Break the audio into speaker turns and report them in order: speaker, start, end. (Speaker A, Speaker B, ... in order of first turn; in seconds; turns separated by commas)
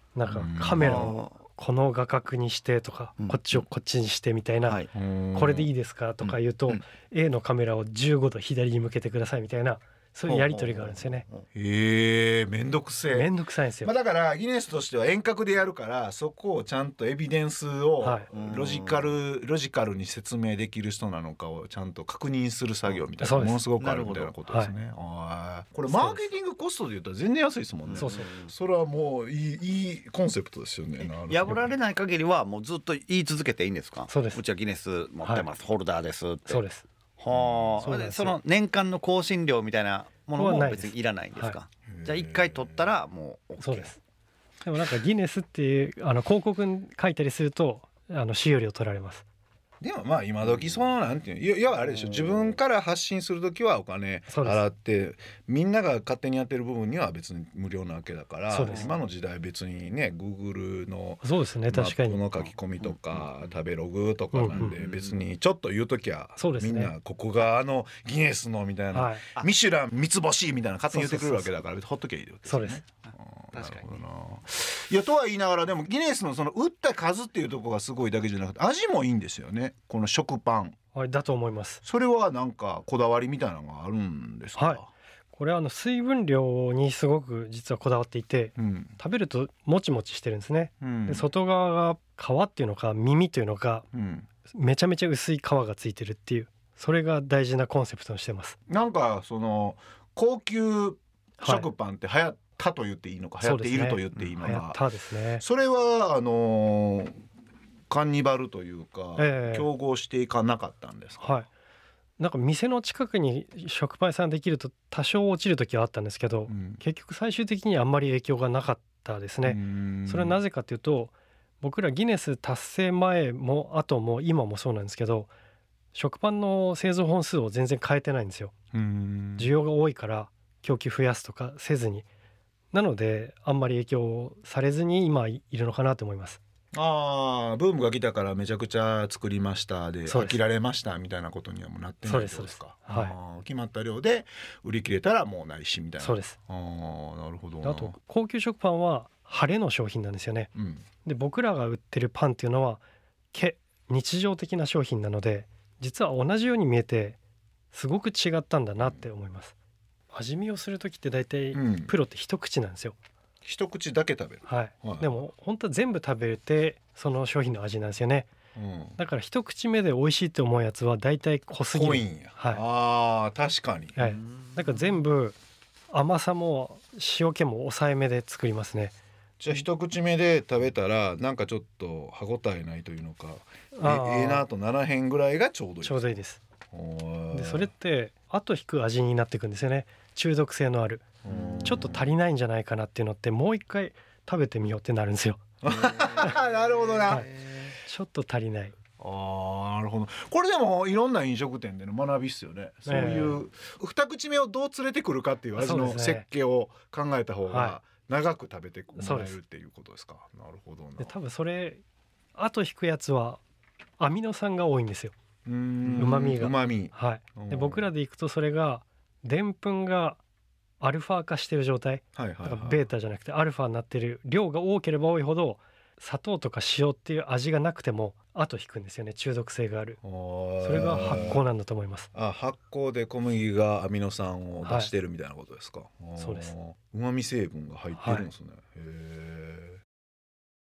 Speaker A: 0.1-11.2, Speaker B: 0.3-1.2, Speaker C: 0.8-1.3, Speaker C: 3.2-3.6, Speaker C: 4.6-4.9, Speaker B: 4.9-5.7, Speaker C: 6.2-6.8, Speaker C: 10.3-11.4, Speaker B: 11.5-13.3, Speaker A: 13.1-13.9, Speaker B: 13.8-31.7, Speaker A: 18.0-18.3, Speaker C: 18.3-19.1, Speaker A: 23.2-23.6, Speaker C: 23.8-24.3, Speaker A: 25.9-26.2, Speaker C: 27.9-28.5, Speaker A: 28.0-28.3, Speaker C: 31.0-36.6, Speaker A: 34.1-34.4, Speaker A: 36.5-36.8, Speaker C: 37.2-43.9, Speaker B: 37.3-38.3, Speaker A: 37.8-38.4, Speaker A: 40.4-41.5, Speaker B: 41.9-42.8, Speaker A: 43.6-44.0, Speaker A: 44.6-49.2, Speaker B: 49.8-80.8, Speaker C: 52.0-52.4, Speaker A: 54.3-54.6, Speaker A: 58.5-58.9, Speaker C: 58.7-58.9, Speaker A: 61.2-62.2, Speaker C: 62.8-63.3, Speaker A: 64.3-64.8, Speaker C: 64.5-65.2, Speaker A: 66.4-66.9, Speaker A: 68.9-69.3, Speaker A: 70.9-71.5, Speaker A: 72.5-72.8, Speaker C: 73.5-74.0, Speaker A: 81.0-81.8, Speaker B: 81.8-84.9, Speaker A: 85.3-93.9, Speaker B: 88.6-88.9, Speaker B: 90.8-91.3, Speaker B: 93.9-94.3, Speaker A: 94.5-98.5, Speaker B: 98.7-104.8, Speaker A: 101.4-101.7, Speaker A: 103.4-105.4, Speaker B: 105.4-107.2, Speaker B: 107.9-111.3, Speaker A: 109.2-109.7, Speaker A: 111.2-111.5, Speaker A: 112.2-125.3, Speaker B: 116.5-116.8, Speaker B: 119.5-120.4, Speaker A: 125.9-128.5, Speaker B: 128.7-129.5, Speaker A: 129.4-132.1, Speaker A: 132.7-136.4, Speaker B: 136.7-147.9, Speaker A: 140.1-140.4, Speaker A: 142.1-143.2, Speaker A: 146.0-146.4, Speaker A: 147.6-150.5, Speaker B: 150.6-150.8, Speaker A: 151.1-152.8, Speaker A: 153.3-157.2, Speaker A: 157.7-159.5, Speaker B: 158.8-159.1, Speaker A: 160.1-163.0, Speaker B: 161.5-161.9, Speaker B: 163.4-165.2, Speaker A: 164.5-168.3, Speaker B: 168.6-169.0, Speaker A: 169.0-172.6, Speaker B: 171.7-174.2, Speaker A: 174.0-175.3, Speaker A: 175.9-178.9, Speaker B: 179.4-186.1, Speaker A: 183.7-184.4, Speaker A: 185.8-186.4, Speaker B: 186.7-187.7, Speaker A: 187.3-191.1, Speaker B: 191.2-192.1, Speaker A: 191.7-195.4, Speaker B: 195.6-197.3, Speaker C: 195.7-197.7, Speaker A: 197.8-198.8, Speaker B: 199.0-211.1, Speaker A: 202.9-203.4, Speaker A: 205.6-206.2, Speaker A: 207.5-207.8, Speaker A: 209.0-209.4, Speaker A: 211.0-211.8, Speaker A: 212.3-213.4, Speaker A: 214.0-215.1, Speaker B: 215.5-217.9, Speaker A: 216.0-220.2, Speaker A: 220.8-230.0, Speaker B: 222.2-222.8, Speaker B: 230.0-231.4, Speaker A: 230.6-232.1, Speaker B: 232.1-239.8, Speaker A: 234.7-234.9, Speaker A: 236.2-236.5, Speaker A: 238.0-238.3